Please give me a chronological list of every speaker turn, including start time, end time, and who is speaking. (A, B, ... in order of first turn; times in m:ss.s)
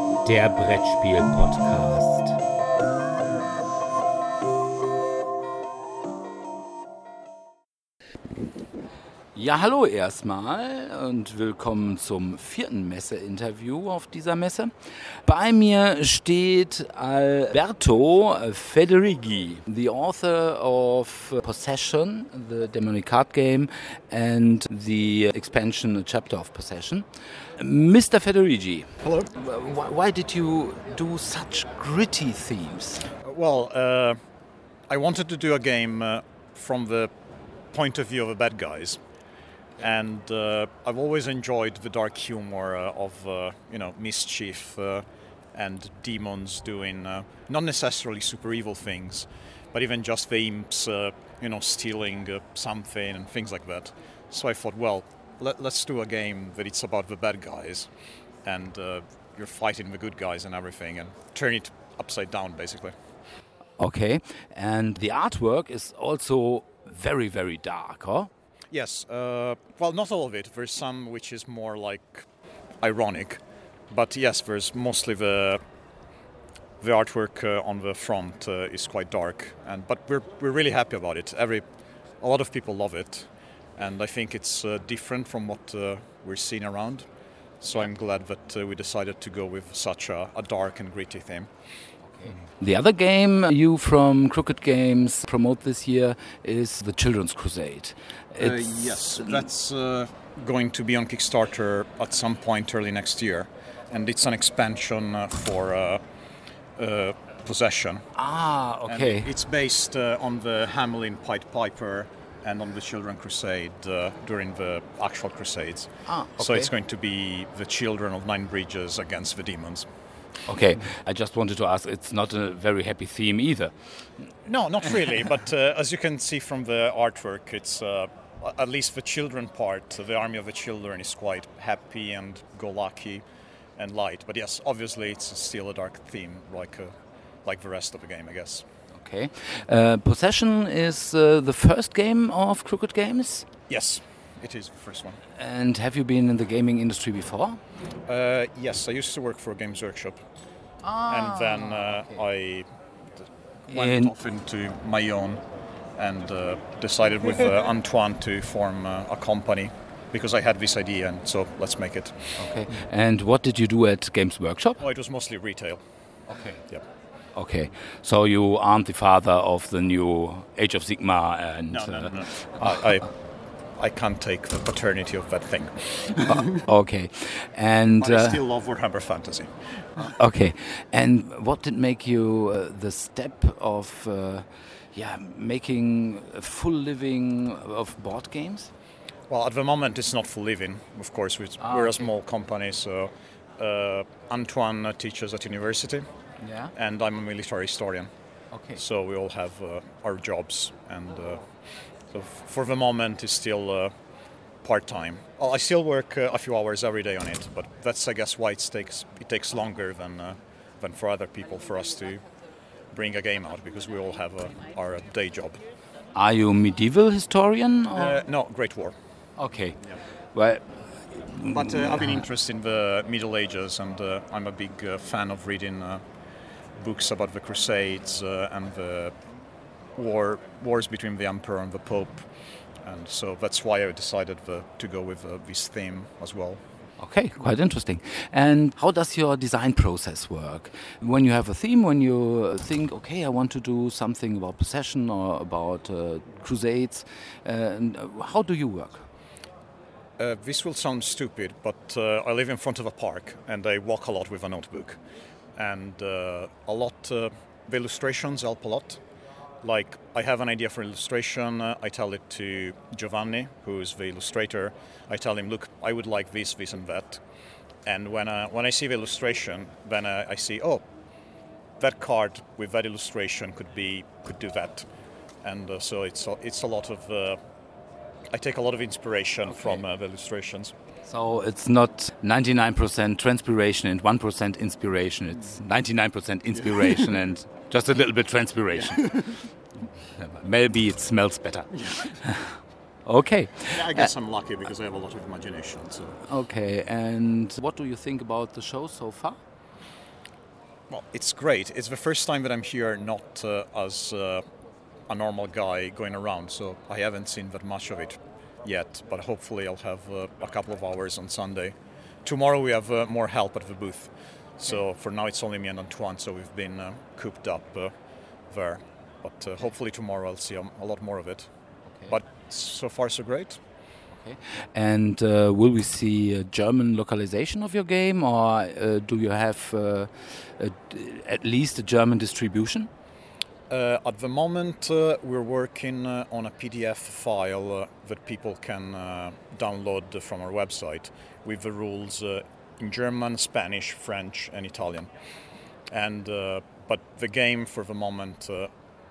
0:00.2-0:02.4 A
0:09.3-0:33.1 A
0:29.0-0:29.3 B
0:33.2-0:34.2 B
0:34.9-0:37.1 B
0:37.7-0:39.0 B
0:39.8-0:57.9 B
0:58.4-1:02.9 B
1:03.8-1:08.3 A
1:08.7-1:12.3 B
1:12.8-1:15.6 B
1:16.8-1:21.6 B
1:22.2-1:27.1 B
1:27.6-1:31.5 B
1:32.0-1:39.4 A
1:38.4-1:46.0 B
1:46.8-1:48.1 B
1:48.2-1:49.3 A
1:48.8-1:59.9 B
1:56.0-1:56.7 A
2:00.5-2:03.7 A
2:04.4-2:13.2 B
2:13.8-2:16.9 B
2:17.4-2:18.6 B
2:18.9-2:23.5 A
2:23.7-2:25.2 B
2:25.4-2:27.6 A
2:28.0-2:30.2 B
2:30.8-2:32.2 A
2:31.1-2:32.7 B
2:33.7-2:35.4 B
2:33.7-2:34.1 A
2:36.0-2:42.5 B
2:42.4-2:44.8 A
2:44.8-2:45.8 B
2:46.3-2:46.6 A
2:47.3-2:52.8 A
2:51.7-2:53.2 B
2:53.8-2:56.4 B
2:56.3-2:58.4 A
2:58.0-3:00.1 B
3:00.0-3:08.7 A
3:09.3-3:16.0 B
3:11.6-3:12.1 A
3:16.4-3:16.7 A
3:16.7-3:18.1 B
3:18.5-3:18.8 A
3:18.7-3:23.9 B
3:24.6-3:32.3 B
3:32.9-3:35.6 B
3:36.1-3:38.2 A
3:37.9-3:38.9 B
3:39.4-3:42.2 A
3:41.5-3:46.0 B
3:46.7-3:49.2 B
3:49.9-3:56.6 B
3:57.0-4:09.0 A
4:10.2-4:15.0 B
4:15.6-4:19.0 B
4:19.6-4:27.2 B
4:27.8-4:30.8 B
4:31.8-4:34.9 B
4:35.4-4:37.4 B
4:38.3-4:40.7 B
4:39.5-4:39.8 A
4:41.0-4:49.4 A
4:50.0-4:54.1 A
4:51.7-4:52.2 B
4:53.7-4:56.2 B
4:56.2-4:59.4 A
5:00.9-5:04.4 B
5:05.1-5:23.6 B
5:21.8-5:22.2 A
5:24.1-5:32.9 A
5:33.7-5:45.1 B
5:45.8-5:48.7 B